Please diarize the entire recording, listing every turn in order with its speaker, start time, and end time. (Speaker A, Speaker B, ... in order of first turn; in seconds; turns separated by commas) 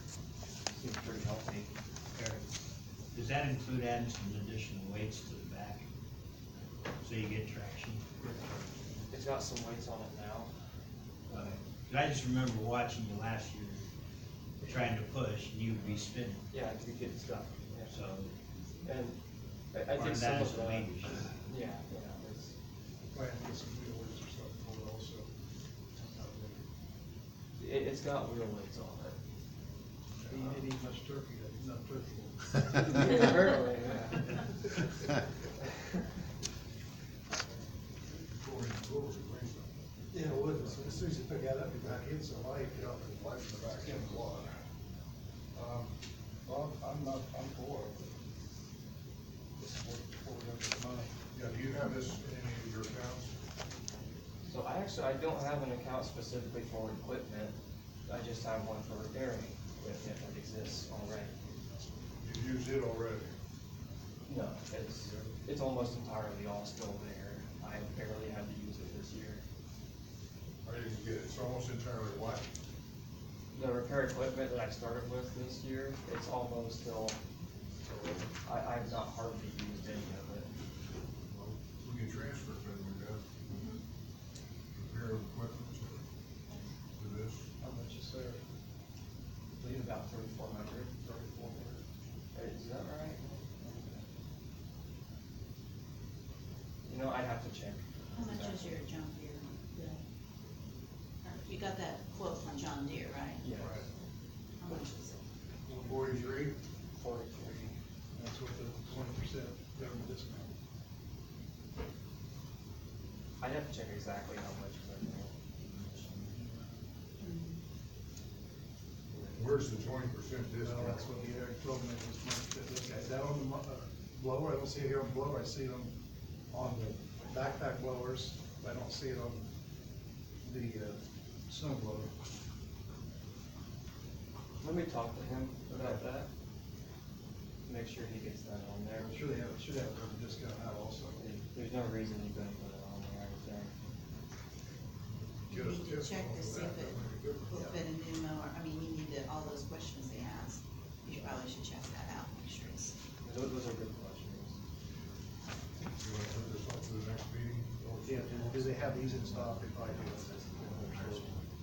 Speaker A: 0.7-2.5, Speaker B: 3.1-5.8, Speaker B: 7.0-8.0, Speaker A: 9.1-10.5, Speaker B: 11.3-13.9, Speaker B: 14.6-16.4, Speaker A: 16.5-18.0, Speaker B: 17.9-18.3, Speaker A: 18.8-19.2, Speaker A: 19.7-22.5, Speaker B: 19.9-21.4, Speaker C: 23.1-25.3, Speaker C: 25.9-26.6, Speaker A: 27.6-29.2, Speaker D: 30.2-30.6, Speaker C: 30.3-33.1, Speaker A: 32.8-34.6, Speaker D: 38.3-39.7, Speaker C: 40.1-43.0, Speaker D: 40.6-41.0, Speaker D: 41.8-42.1, Speaker D: 42.7-44.5, Speaker C: 43.6-44.2, Speaker D: 45.6-45.9, Speaker C: 46.5-48.1, Speaker C: 49.6-51.1, Speaker D: 51.3-53.3, Speaker A: 54.5-57.5, Speaker A: 58.1-61.3, Speaker D: 62.2-63.3, Speaker A: 64.3-69.4, Speaker D: 65.0-65.3, Speaker D: 70.7-72.5, Speaker A: 73.5-77.2, Speaker A: 78.4-80.5, Speaker D: 81.3-83.2, Speaker E: 83.5-83.8, Speaker D: 84.8-86.0, Speaker D: 87.0-87.5, Speaker C: 87.6-88.4, Speaker A: 89.6-91.8, Speaker A: 92.3-94.0, Speaker A: 96.9-98.8, Speaker E: 98.1-100.0, Speaker E: 101.2-103.4, Speaker A: 103.4-103.8, Speaker D: 103.6-103.8, Speaker E: 104.6-105.2, Speaker C: 105.7-106.5, Speaker D: 105.7-106.5, Speaker A: 107.0-107.8, Speaker C: 108.2-110.5, Speaker A: 113.4-115.3, Speaker E: 117.2-117.6, Speaker D: 119.3-121.1, Speaker C: 120.6-125.9, Speaker C: 126.5-129.5, Speaker C: 130.4-132.1, Speaker A: 134.6-136.3, Speaker C: 135.7-136.0, Speaker A: 137.7-139.2, Speaker C: 139.1-141.3, Speaker A: 141.2-143.7, Speaker D: 145.4-147.6, Speaker E: 145.5-147.0, Speaker E: 147.5-152.9, Speaker A: 153.2-154.6, Speaker D: 156.0-158.9, Speaker C: 158.0-161.4